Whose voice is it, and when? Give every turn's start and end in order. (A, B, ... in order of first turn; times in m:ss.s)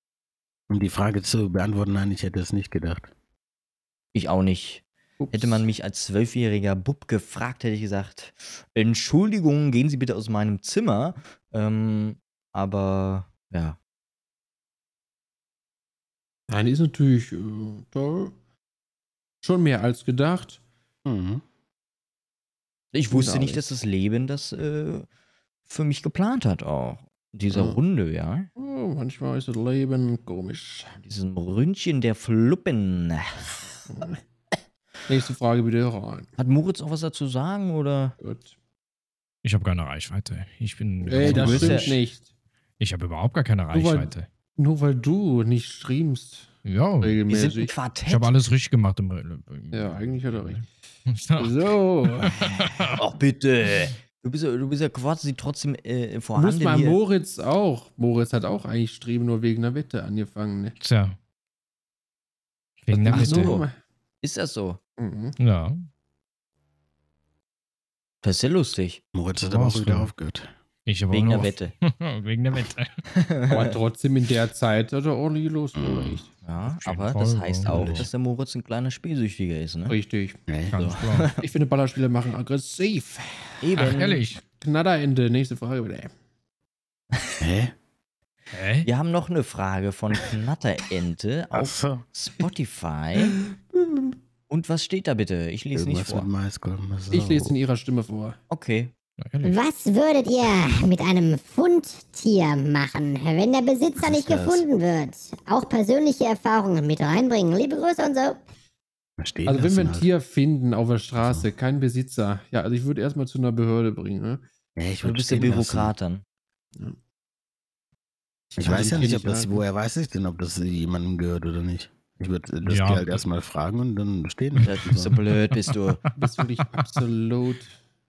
0:00.7-0:03.1 A
0:04.1-0:13.8 B
0:05.2-0:05.7 C
0:16.5-0:18.3 C
0:19.4-0:20.6 C
0:21.0-0:21.4 A
0:22.9-0:25.0 B
0:23.1-0:23.6 C
0:25.7-0:28.5 B
0:27.5-0:27.8 C
0:28.6-0:30.9 C
0:31.0-0:33.6 B
0:33.9-0:34.2 C
0:35.1-0:36.3 C
0:36.4-0:38.1 B
0:38.2-0:38.5 C
0:39.4-0:42.0 D
0:41.0-0:42.2 C
0:41.2-0:42.0 B
0:42.8-0:44.3 D
0:43.7-0:47.7 C
0:46.6-0:47.2 D
0:47.3-0:48.3 B
0:48.1-0:53.0 D
0:49.7-0:50.6 C
0:51.4-0:52.4 C
0:53.0-0:57.0 B
0:56.4-1:00.8 C
1:00.8-1:01.2 D
1:02.8-1:03.6 D
1:02.9-1:03.7 B
1:03.0-1:03.7 C
1:04.2-1:04.8 B
1:05.0-1:05.4 C
1:05.4-1:05.8 D
1:08.2-1:09.0 B
1:09.1-1:10.5 A
1:09.4-1:10.1 D
1:10.8-1:13.0 D
1:11.1-1:11.7 B
1:13.1-1:13.7 B
1:13.5-1:16.3 C
1:15.7-1:16.2 A
1:16.4-1:20.0 B
1:16.7-1:18.1 D
1:17.6-1:18.1 A
1:19.9-1:20.4 C
1:20.5-1:20.8 A
1:20.7-1:21.3 D
1:20.7-1:21.4 B
1:21.4-1:26.1 C
1:23.6-1:24.2 B
1:23.8-1:24.4 D
1:27.4-1:27.7 A
1:28.5-1:28.9 D
1:28.8-1:33.4 B
1:31.5-1:32.0 A
1:33.7-1:34.1 C
1:34.5-1:36.3 B
1:35.7-1:37.5 A
1:37.1-1:38.4 C
1:38.5-1:38.9 B
1:39.2-1:39.6 D
1:39.4-1:48.4 E
1:44.0-1:44.6 A
1:49.2-1:50.1 A
1:49.4-1:54.4 C
1:51.2-1:51.5 A
1:54.8-1:55.9 A
1:55.0-1:56.2 B
1:58.5-1:59.6 C
1:58.6-2:05.2 A
2:02.6-2:03.2 D
2:04.6-2:06.0 B
2:06.2-2:07.7 C